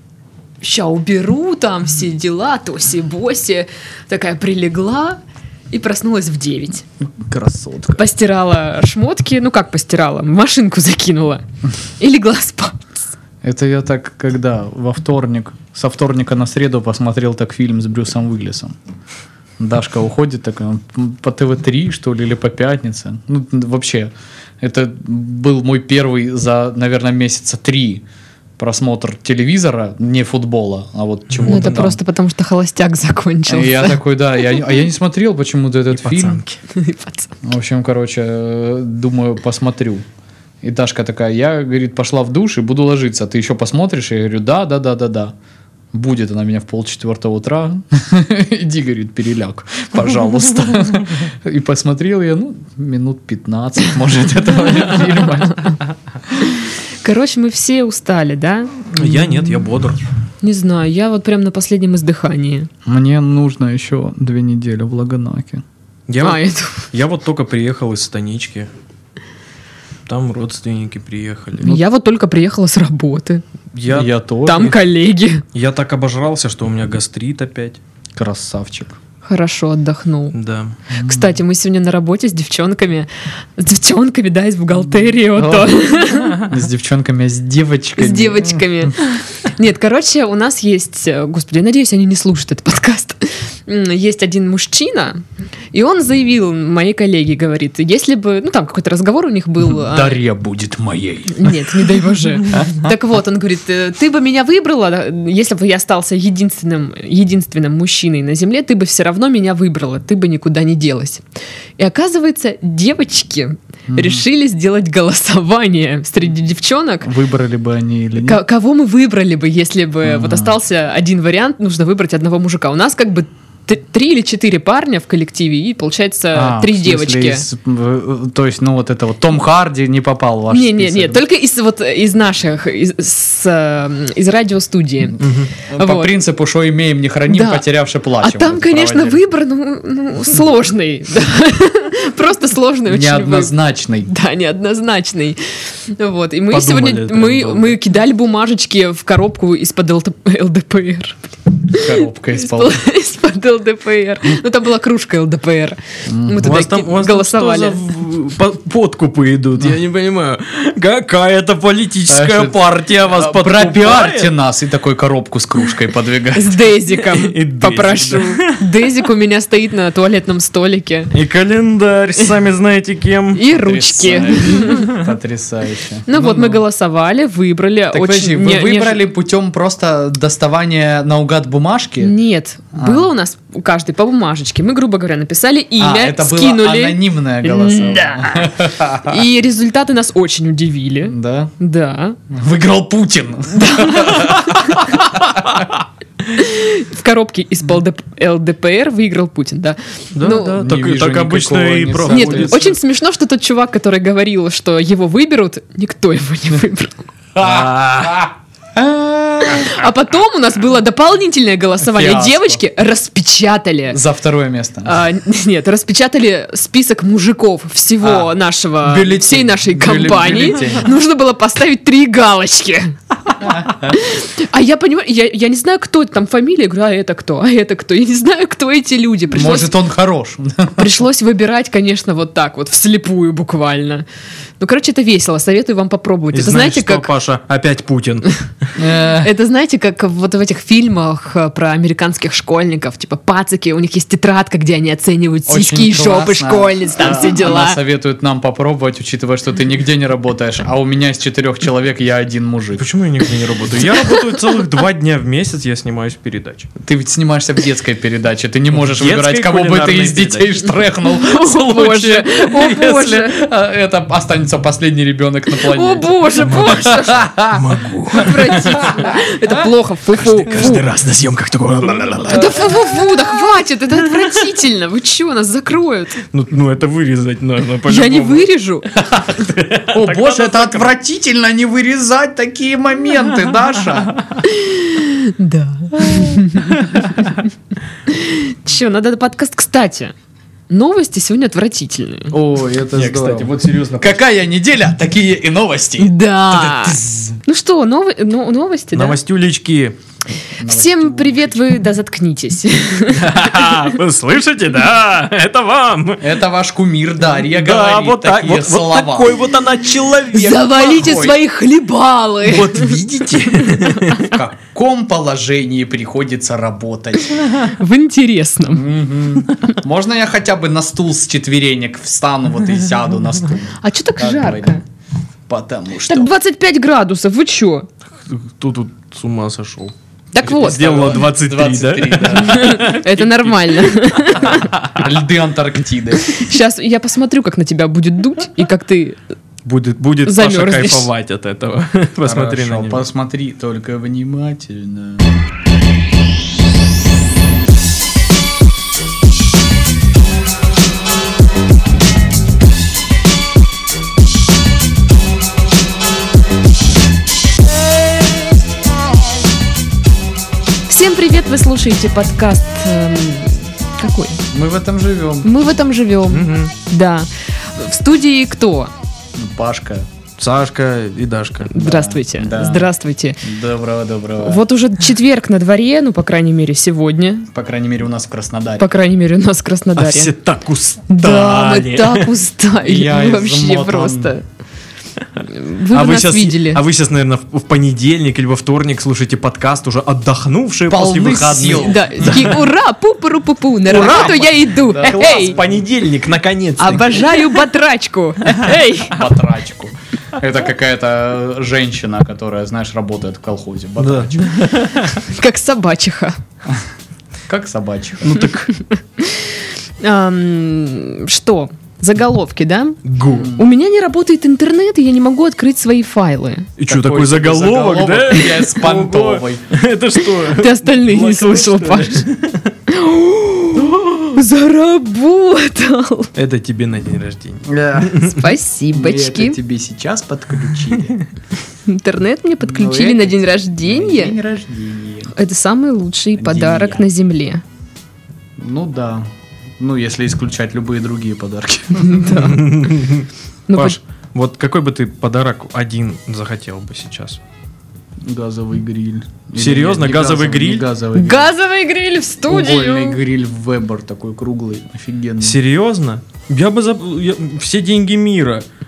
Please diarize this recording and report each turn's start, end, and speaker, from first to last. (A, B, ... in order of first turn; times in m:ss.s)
0:00.6-0:05.2 A
0:05.7-0:06.8 A
0:07.2-0:08.0 B
0:08.0-0:11.4 A
0:12.0-0:13.0 A
0:13.4-0:18.7 B
0:19.6-0:28.0 B
0:28.6-0:32.0 B
0:31.3-0:31.9 C
0:31.5-0:34.0 A
0:33.5-0:36.4 B
0:35.9-0:36.6 C
0:36.7-0:37.3 A
0:37.4-0:40.0 B
0:40.6-0:45.3 B
0:45.9-0:55.7 B
0:54.9-0:55.8 A
0:56.4-0:58.8 A
0:58.9-1:00.0 C
0:58.9-0:59.6 B
1:00.4-1:02.7 A
1:02.8-1:05.6 B
1:06.1-1:08.7 C
1:06.2-1:06.8 A
1:10.0-1:11.8 C
1:11.6-1:13.4 A
1:13.7-1:14.1 C
1:13.9-1:14.8 B
1:14.4-1:15.4 A
1:15.5-1:17.8 C
1:18.1-1:18.9 B
1:19.2-1:20.3 A
1:20.3-1:20.7 C
1:20.9-1:21.3 B
1:21.0-1:26.4 A
1:25.3-1:28.9 B
1:28.0-1:35.2 A
1:35.7-1:40.2 A
1:39.6-1:41.9 B
1:41.3-1:51.2 A
1:42.5-1:42.9 B
1:51.8-1:57.1 A
1:53.9-1:54.2 B
1:57.0-1:58.4 B
1:58.2-2:07.4 A
2:00.0-2:00.5 B
2:06.3-2:11.2 B
2:10.5-2:16.1 A
2:15.2-2:15.5 C
2:15.6-2:19.2 B
2:17.3-2:17.6 A
2:18.2-2:23.6 A
2:22.9-2:24.1 B
2:24.1-2:37.8 A
2:26.5-2:27.8 C
2:31.7-2:32.8 B
2:36.1-2:36.5 B
2:36.4-2:44.3 C
2:42.1-2:46.6 B
2:46.3-2:51.1 A
2:47.0-2:48.6 C
2:51.1-2:53.4 C
2:53.3-2:55.0 A
2:53.5-2:56.6 B
2:56.1-2:59.0 A
2:57.9-3:02.1 B
3:02.0-3:12.2 A
3:02.7-3:03.1 B
3:05.8-3:09.2 B
3:11.0-3:11.5 B
3:12.3-3:15.6 B
3:13.5-3:15.2 A
3:16.2-3:20.6 A
3:20.1-3:22.6 C
3:20.5-3:22.8 B
3:22.1-3:27.0 A
3:27.3-3:29.7 B
3:27.4-3:28.2 C
3:29.4-3:34.0 A
3:31.8-3:32.6 B
3:33.9-3:35.0 B
3:34.8-3:43.0 A
3:38.0-3:40.9 B
3:43.4-3:43.8 B
3:43.5-3:49.7 A
3:49.3-3:50.9 B
3:50.8-3:54.0 A
3:54.6-3:57.1 A
3:56.3-3:58.3 C
3:58.8-3:59.3 B
3:59.0-4:07.8 A
4:05.5-4:12.9 B
4:12.8-4:16.7 C
4:16.8-4:27.8 B
4:18.8-4:20.5 C
4:21.0-4:23.4 A
4:25.6-4:27.3 A
4:26.4-4:28.9 C
4:28.1-4:30.8 A
4:28.4-4:29.2 B
4:30.4-4:32.9 C
4:32.3-4:36.2 A
4:36.3-4:40.9 C
4:37.8-4:38.9 A
4:39.9-4:44.2 B
4:44.4-4:47.4 A
4:46.6-4:47.2 C
4:48.1-4:50.1 A
4:50.7-4:52.3 A
4:52.3-4:57.4 B
4:52.9-4:54.2 C
4:56.0-4:59.2 A
4:58.9-5:00.0 C
5:00.6-5:01.6 B
5:00.6-5:03.8 A
5:03.1-5:06.2 C
5:06.2-5:09.4 B
5:07.3-5:10.9 C
5:10.3-5:13.0 A
5:10.7-5:11.4 B
5:12.4-5:14.3 C
5:14.0-5:17.4 B
5:17.4-5:18.8 A
5:18.7-5:24.8 B
5:23.8-5:24.8 A
5:25.5-5:26.3 B
5:26.0-5:27.9 A
5:28.2-5:35.0 C
5:30.3-5:31.2 A
5:30.4-5:32.9 B
5:32.4-5:34.7 A
5:34.3-5:36.4 B
5:36.3-5:39.2 A
5:39.6-5:43.0 C
5:40.2-5:41.1 A
5:42.2-5:45.3 B
6:00.9-6:04.4 A
6:04.5-6:05.5 B
6:05.4-6:08.9 A
6:06.3-6:06.7 C
6:09.4-6:10.0 B
6:10.4-6:11.7 C
6:11.7-6:13.4 A
6:11.8-6:12.9 B
6:13.4-6:14.6 B
6:14.4-6:17.5 A
6:17.5-6:18.9 B
6:18.8-6:20.3 A
6:20.0-6:22.3 C
6:21.1-6:24.4 A
6:22.8-6:24.3 B
6:25.5-6:26.8 A
6:25.9-6:32.6 C
6:30.9-6:32.6 B
6:31.7-6:35.6 A
6:33.9-6:37.5 C
6:33.9-6:35.8 B
6:36.8-6:39.2 A
6:39.0-6:44.5 B
6:44.0-6:45.1 C
6:45.1-6:46.4 A
6:47.5-6:48.5 B
6:48.2-6:48.7 C
6:49.2-6:56.7 A
6:53.0-6:53.5 C
6:53.2-6:53.6 B
6:56.8-7:02.7 C
6:56.9-6:59.6 B
7:00.2-7:02.2 A
7:02.9-7:06.3 A
7:06.4-7:08.4 C
7:07.6-7:08.3 B
7:08.1-7:09.6 A
7:08.9-7:11.2 B
7:11.8-7:14.3 A
7:12.6-7:15.3 B
7:15.3-7:17.6 A
7:16.4-7:17.0 B
7:18.6-7:19.2 B
7:19.8-7:22.3 B
7:22.0-7:22.7 A
7:22.3-7:27.4 C
7:23.7-7:24.0 A
7:28.2-7:31.5 B
7:29.5-7:30.8 C
7:31.1-7:33.2 A
7:32.4-7:35.6 B
7:35.4-7:38.6 C